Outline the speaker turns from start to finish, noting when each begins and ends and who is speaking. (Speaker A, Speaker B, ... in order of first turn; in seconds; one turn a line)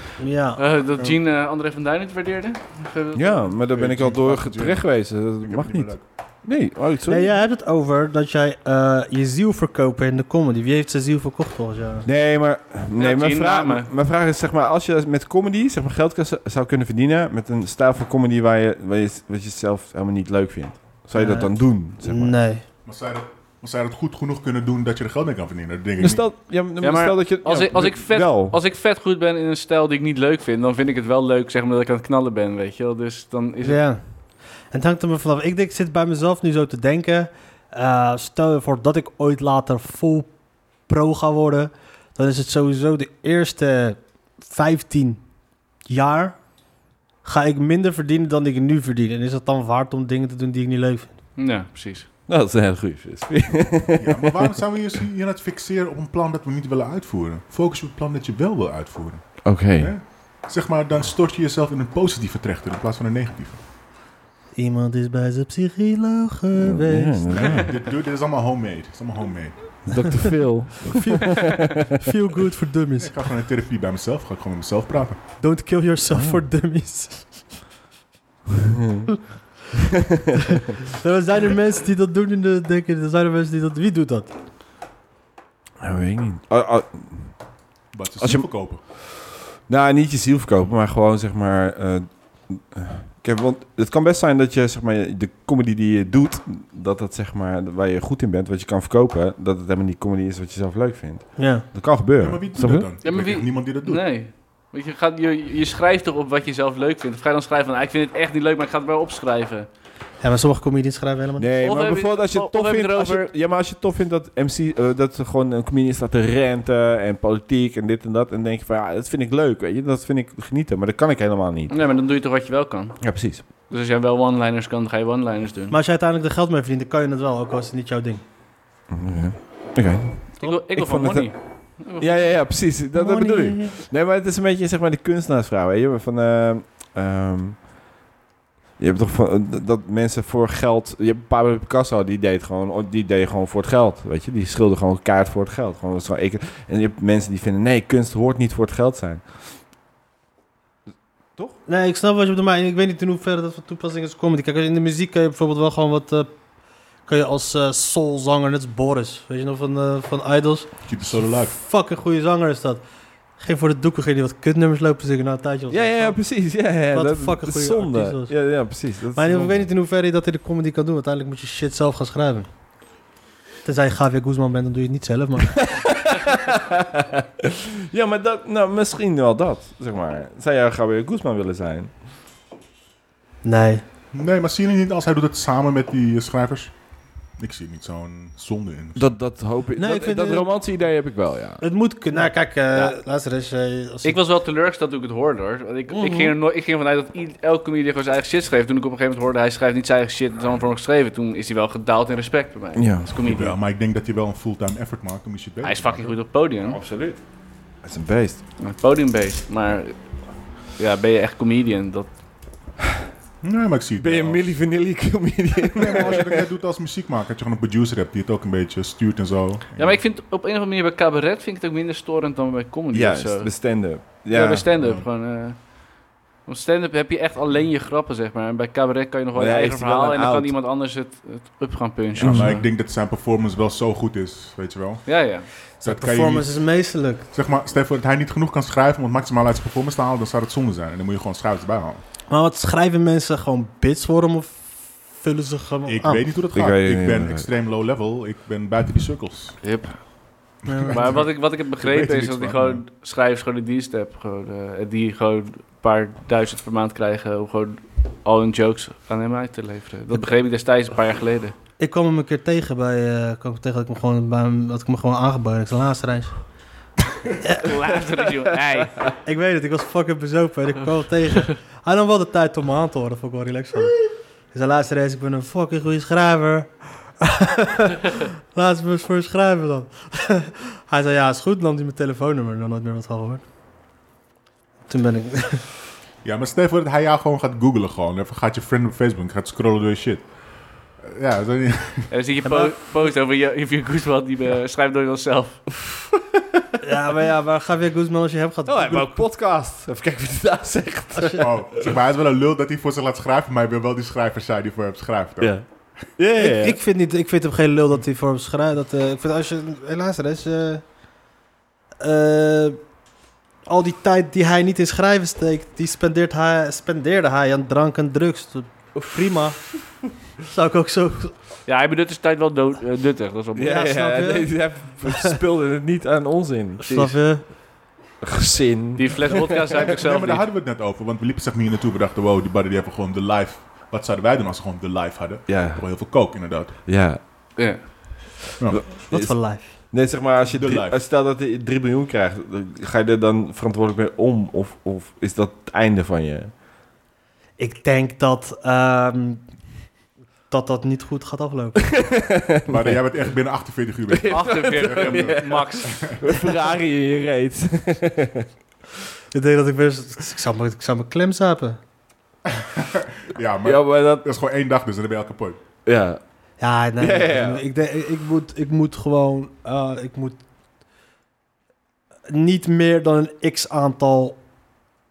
Speaker A: 0.2-0.6
Speaker B: 0.6-3.5
Speaker C: 3.1-7.3
Speaker D: 3.7-6.0
Speaker A: 7.1-12.1
Speaker C: 12.0-22.4
Speaker B: 12.9-13.9
Speaker A: 21.1-22.6
Speaker D: 22.9-26.2
Speaker C: 26.0-28.6
Speaker B: 26.8-33.8
Speaker A: 33.6-34.0
Speaker A: 34.7-40.3
Speaker A: 40.9-45.2
Speaker A: 45.9-46.5
Speaker A: 47.2-51.1
Speaker B: 51.4-52.1
Speaker C: 52.3-54.5
Speaker D: 54.0-63.6
Speaker C: 59.4-60.0
Speaker A: 64.5-67.6
Speaker C: 66.6-67.8
Speaker D: 67.3-69.8
Speaker C: 69.9-72.0
Speaker A: 70.8-73.1
Speaker D: 73.0-75.2
Speaker A: 75.4-77.4
Speaker C: 76.1-76.4
Speaker C: 78.6-79.1
Speaker A: 80.9-84.3
Speaker C: 85.8-87.4
Speaker D: 87.9-88.8
Speaker C: 88.2-89.0
Speaker C: 89.7-102.9
Speaker A: 101.4-101.7
Speaker D: 102.2-104.0
Speaker B: 103.0-109.7
Speaker A: 110.2-111.5
Speaker C: 111.4-121.7
Speaker B: 111.6-113.3
Speaker B: 121.7-123.1
Speaker C: 123.0-123.4
Speaker B: 123.6-125.8
Speaker A: 125.7-128.2
Speaker C: 128.9-131.3
Speaker B: 130.4-132.3
Speaker C: 132.0-137.6
Speaker A: 132.9-133.8
Speaker C: 138.8-149.4
Speaker A: 151.7-156.3
Speaker A: 157.1-162.8
Speaker D: 160.9-161.6
Speaker A: 163.4-168.3
Speaker C: 165.7-169.7
Speaker A: 169.1-172.5
Speaker A: 173.6-175.7
Speaker C: 175.6-181.9
Speaker A: 183.4-183.8
Speaker D: 184.1-186.7
Speaker D: 187.4-189.1
Speaker C: 188.9-191.6
Speaker A: 189.8-190.5
Speaker A: 191.6-194.2
Speaker B: 194.0-203.6
Speaker A: 195.9-196.3
Speaker C: 202.7-203.1
Speaker D: 203.2-206.2
Speaker B: 205.6-206.8
Speaker C: 206.6-207.2
Speaker C: 207.8-208.4
Speaker B: 208.6-209.9
Speaker B: 210.8-212.1
Speaker D: 213.4-214.4
Speaker C: 214.0-216.5
Speaker D: 215.7-220.0
Speaker B: 219.8-232.6
Speaker C: 222.9-224.7
Speaker D: 224.8-225.1
Speaker C: 229.3-230.5
Speaker D: 232.2-242.0
Speaker C: 232.2-232.6
Speaker B: 235.1-235.5
Speaker A: 235.8-237.3
Speaker A: 242.3-246.2
Speaker D: 245.8-249.6
Speaker C: 246.5-247.5
Speaker B: 249.6-250.0
Speaker D: 250.6-252.8
Speaker A: 250.7-251.1
Speaker B: 250.9-261.6
Speaker A: 261.8-266.4
Speaker B: 267.6-269.1
Speaker A: 269.2-274.0
Speaker A: 274.5-283.4
Speaker A: 284.9-285.6
Speaker D: 286.2-290.3
Speaker D: 290.9-292.1
Speaker B: 292.1-295.6
Speaker A: 292.4-292.8
Speaker A: 296.8-299.2
Speaker C: 298.7-301.9
Speaker A: 301.1-301.4
Speaker D: 301.4-305.6
Speaker C: 305.4-305.6
Speaker C: 306.2-306.8
Speaker A: 306.4-310.9
Speaker A: 312.0-312.9
Speaker A: 313.6-321.3
Speaker B: 321.7-323.9
Speaker C: 323.6-326.9
Speaker A: 323.6-325.3
Speaker A: 326.8-327.4
Speaker B: 326.9-327.2
Speaker C: 328.2-329.9
Speaker B: 328.9-330.5
Speaker D: 329.7-336.8
Speaker C: 335.5-335.9
Speaker C: 336.9-337.2
Speaker B: 337.6-338.1
Speaker D: 338.6-338.9
Speaker C: 338.6-346.5
Speaker A: 339.1-339.7
Speaker D: 340.5-341.0
Speaker A: 347.6-349.5
Speaker A: 350.5-352.2
Speaker C: 352.0-353.0
Speaker D: 352.7-356.2
Speaker C: 354.1-358.5
Speaker B: 354.3-356.2
Speaker A: 359.3-361.8
Speaker D: 362.5-365.6
Speaker C: 363.6-364.3
Speaker C: 365.9-366.2
Speaker A: 366.6-370.4
Speaker C: 367.0-367.6
Speaker A: 372.3-374.4